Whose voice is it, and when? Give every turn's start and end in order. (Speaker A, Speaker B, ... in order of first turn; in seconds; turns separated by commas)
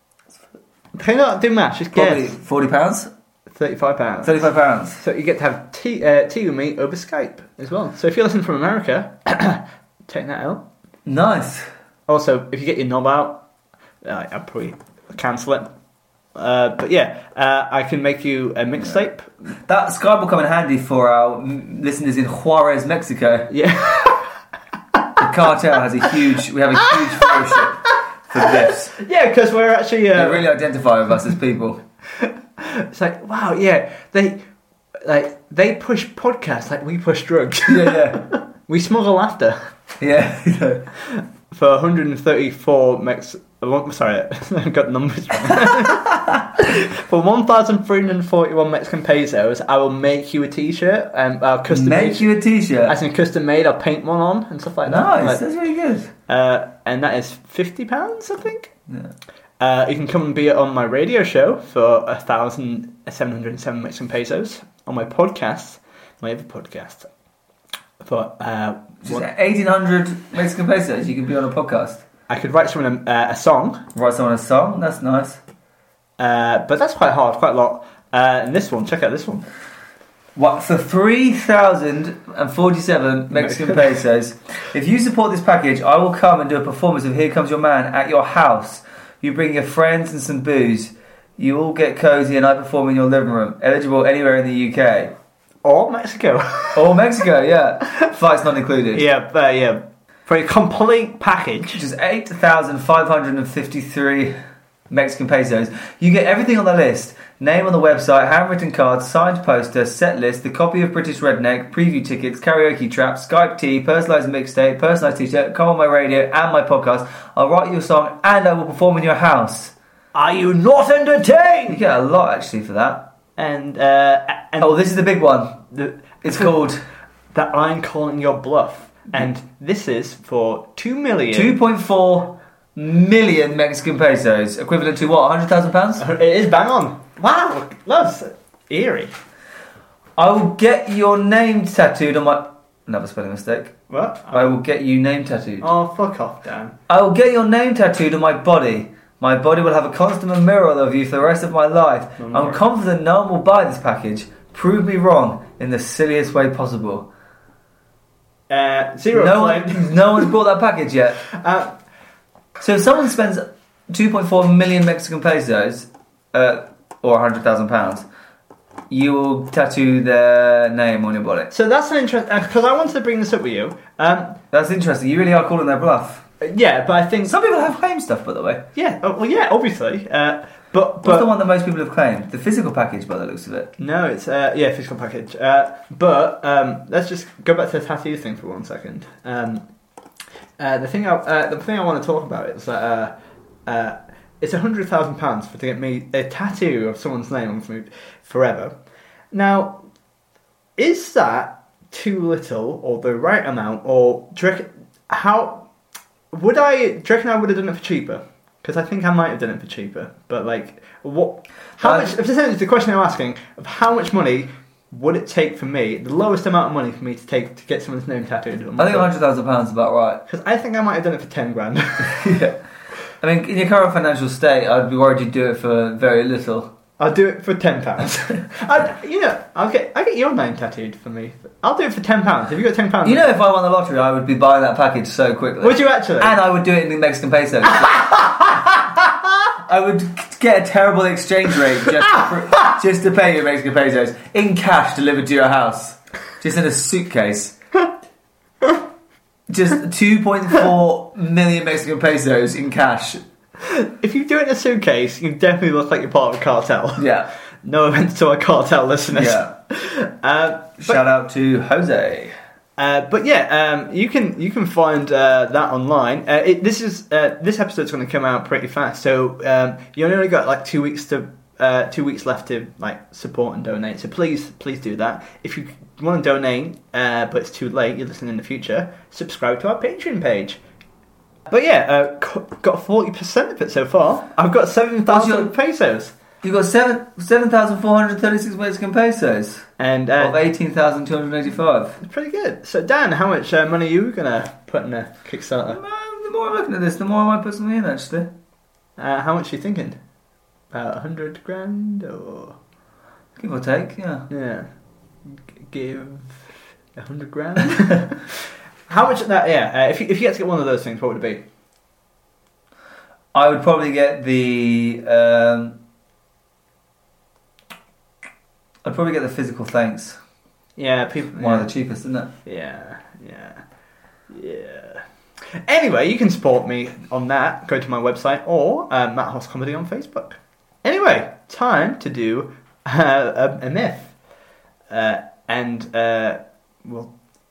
Speaker A: 0.9-2.3, Speaker B: 1.9-3.1, Speaker A: 3.5-4.5, Speaker B: 4.2-5.0, Speaker A: 5.0-10.6, Speaker B: 11.1-11.7, Speaker A: 12.1-13.4, Speaker A: 14.0-15.7, Speaker A: 16.3-19.3, Speaker B: 19.6-23.5, Speaker A: 23.5-24.3, Speaker B: 25.2-28.9, Speaker A: 26.9-27.6, Speaker A: 28.3-30.4, Speaker B: 30.1-31.8, Speaker A: 32.2-34.4, Speaker A: 35.0-39.6, Speaker B: 37.7-38.2, Speaker B: 40.0-40.9, Speaker A: 41.0-52.3, Speaker B: 45.7-46.0, Speaker B: 51.7-53.0, Speaker A: 52.9-55.4, Speaker B: 54.9-56.1, Speaker A: 56.3-58.7, Speaker A: 59.6-67.1, Speaker A: 68.0-69.3, Speaker B: 69.0-72.0, Speaker A: 72.3-73.8, Speaker B: 73.9-75.4, Speaker A: 76.2-79.5, Speaker B: 80.3-95.1, Speaker A: 83.3-84.0, Speaker A: 95.6-97.0, Speaker B: 96.7-99.0, Speaker A: 98.9-101.8, Speaker B: 101.7-104.3, Speaker B: 104.9-119.7, Speaker A: 120.1-121.8, Speaker B: 121.7-123.1, Speaker A: 123.4-124.8, Speaker B: 124.6-125.6, Speaker A: 125.7-126.5, Speaker B: 126.2-126.8, Speaker A: 127.3-131.6, Speaker B: 131.3-136.0, Speaker A: 136.0-139.1, Speaker B: 140.2-143.7, Speaker A: 143.9-144.6, Speaker B: 144.3-145.7, Speaker A: 145.6-146.8, Speaker B: 146.9-157.1, Speaker A: 152.2-152.6, Speaker A: 158.5-160.3, Speaker B: 159.1-161.2, Speaker A: 161.3-161.7, Speaker B: 162.6-168.1, Speaker B: 168.9-171.5, Speaker A: 171.5-174.4, Speaker B: 174.5-176.2, Speaker A: 176.4-177.3, Speaker B: 177.2-178.6, Speaker A: 178.7-181.3, Speaker B: 181.0-183.7, Speaker A: 183.8-189.7, Speaker A: 190.6-193.1, Speaker A: 193.7-198.7, Speaker A: 199.3-199.8, Speaker A: 200.8-205.7, Speaker A: 206.3-219.1, Speaker B: 211.8-212.1, Speaker B: 218.8-220.2, Speaker A: 220.3-222.3, Speaker B: 222.0-222.6, Speaker B: 223.2-226.7, Speaker A: 227.0-233.3, Speaker B: 233.0-238.3, Speaker A: 235.6-236.3, Speaker A: 237.9-238.5, Speaker B: 239.7-247.5, Speaker B: 249.5-253.2, Speaker A: 253.6-257.1, Speaker B: 257.0-257.3, Speaker A: 257.6-261.0, Speaker B: 259.1-259.5, Speaker B: 260.8-262.3, Speaker A: 262.8-280.6, Speaker A: 281.5-286.1, Speaker B: 285.1-285.5, Speaker B: 286.4-289.7, Speaker A: 289.8-290.4, Speaker B: 290.2-292.0, Speaker A: 292.0-295.8, Speaker B: 295.7-298.3, Speaker A: 299.0-300.0, Speaker A: 300.7-302.6, Speaker B: 303.4-304.3, Speaker A: 304.3-304.7, Speaker A: 305.6-306.4, Speaker A: 306.9-311.4, Speaker B: 313.3-315.8, Speaker B: 318.8-320.2, Speaker A: 320.8-321.7, Speaker B: 321.4-322.3, Speaker A: 322.4-323.6, Speaker A: 324.3-325.0, Speaker A: 325.6-334.1, Speaker A: 334.9-337.1